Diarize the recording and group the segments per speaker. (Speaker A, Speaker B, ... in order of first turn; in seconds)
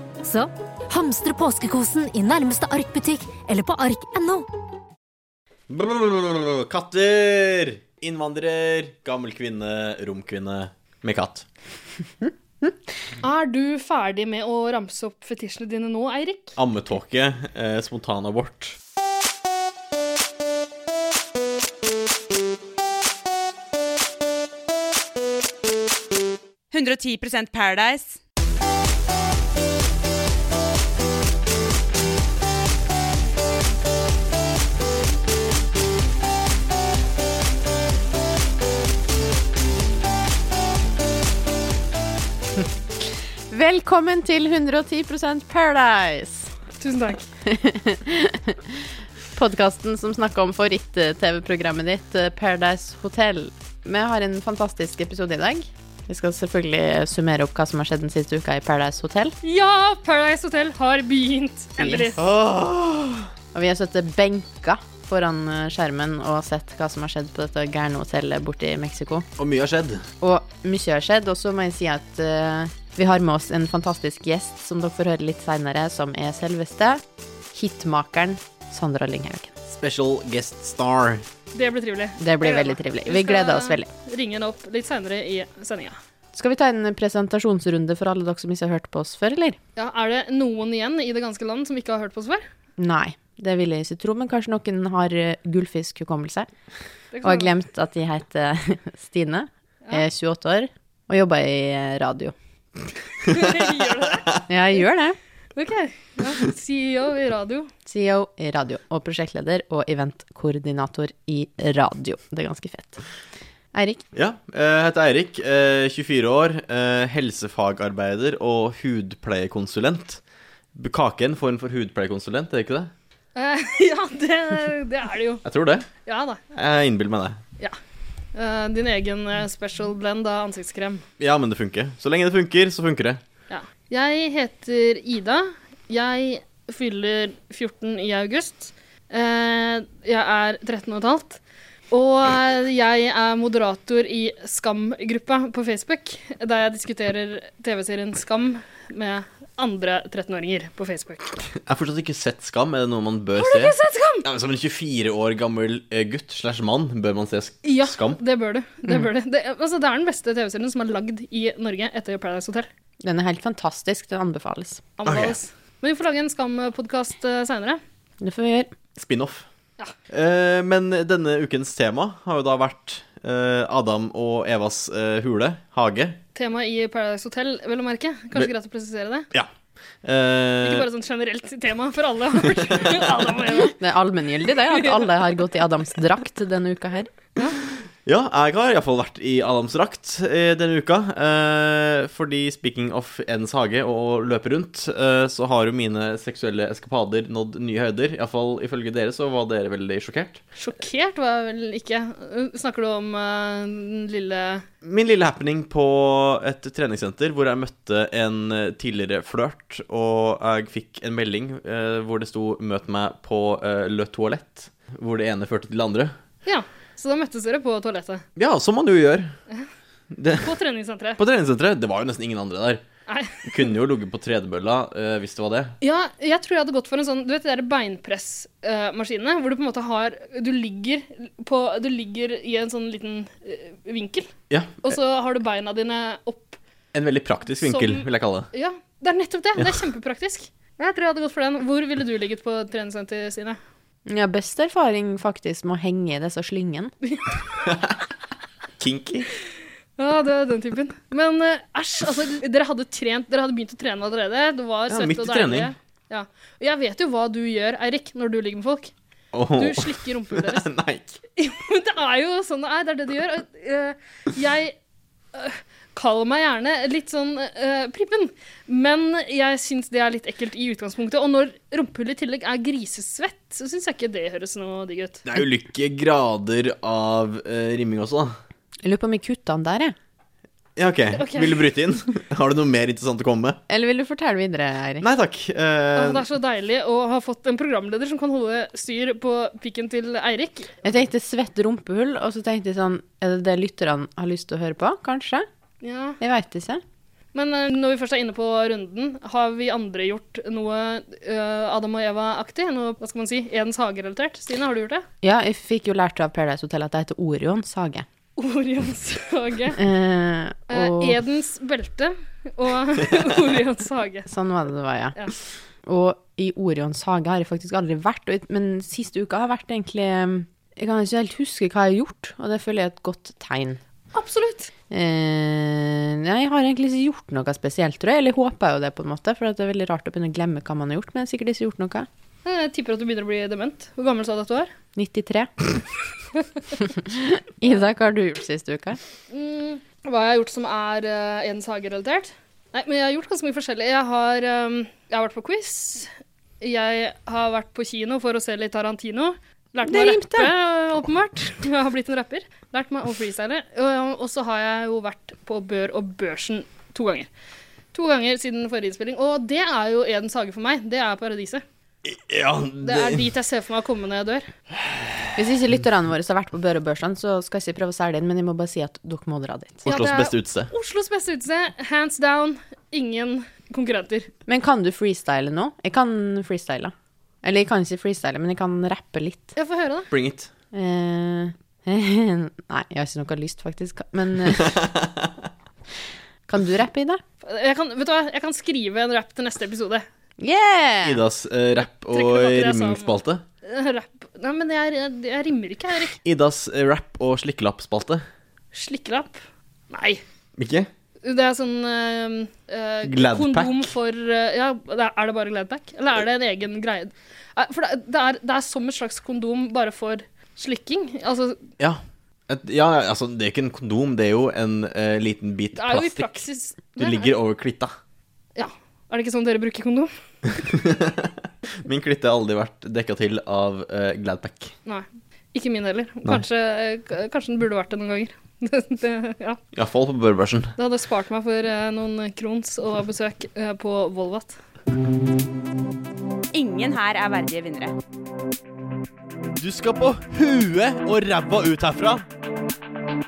Speaker A: 0.2-4.5
Speaker B: 5.7-11.4, 16.6-18.8, 62.2-63.3, 69.4-70.0, 79.7-81.2, 114.1-120.2, 120.8-122.9, 125.5-125.9, 126.5-127.4, 131.2-133.2, 151.6-158.2, 165.1-165.4, 169.0-169.5, 170.1-176.2, 180.0-180.9, 188.1-200.4, 204.8-216.1, 218.4-219.3, 220.1-220.5, 221.2-222.8, 223.4-225.8, 234.5-234.9, 236.9-238.5, 247.7-247.9, 248.8-249.3, 254.9-255.7, 259.3-261.2, 275.3-278.3, 280.8-283.6, 285.0-286.2, 362.0-363.2, 369.9-370.7, 380.1-380.5, 384.5-385.3, 391.0-393.4, 396.2-398.2, 400.6-400.9, 403.1-403.9, 411.8-416.4, 416.9-417.9, 420.7-421.3, 421.8-424.7, 429.8-430.7, 439.6-442.2
Speaker C: 13.2-16.6, 46.8-47.3, 59.4-62.2, 81.5-86.0, 89.8-92.5, 97.1-97.5, 103.3-104.3, 105.6-107.7, 123.3-125.4, 126.0-126.4, 128.3-131.0, 133.5-141.4, 141.9-151.4, 153.4-154.2, 157.6-162.7, 165.0-167.8, 176.3-179.3, 180.6-183.7, 200.6-204.6, 216.4-218.2, 220.4-221.2, 223.1-223.6, 225.8-234.3, 234.8-236.6, 237.6-243.6, 250.0-258.9, 259.6-260.7, 261.4-264.8, 265.3-275.2, 281.2-281.7, 286.0-290.7, 295.8-296.2, 297.3-305.1, 308.4-309.8, 310.7-314.3, 324.1-324.7, 332.4-334.7, 339.3-357.3, 357.9-361.6, 362.8-364.5, 369.9-374.3, 379.6-380.1, 387.4-390.1, 392.1-396.2, 398.7-400.2, 401.2-411.6, 415.8-417.3, 418.6-420.1, 424.9-429.6, 430.8-434.6
Speaker D: 26.7-28.2, 436.5-437.9
Speaker E: 43.5-46.5, 47.5-59.4, 61.8-62.1, 63.5-69.3, 70.2-79.5, 82.2-83.9, 86.3-89.6, 92.8-96.5, 97.2-102.3, 104.5-105.2, 107.9-113.0, 113.7-114.0, 163.0-164.8, 168.2-168.7, 183.6-187.1, 244.1-246.9, 278.8-279.9, 283.7-285.1, 290.8-295.5, 296.2-296.8, 305.2-308.1, 309.8-311.2, 314.3-315.2, 315.9-323.8, 324.9-332.1, 335.0-335.5, 336.9-339.0, 349.8-350.5, 365.4-369.8, 374.5-379.6, 380.7-384.9, 386.5-387.2, 390.4-391.2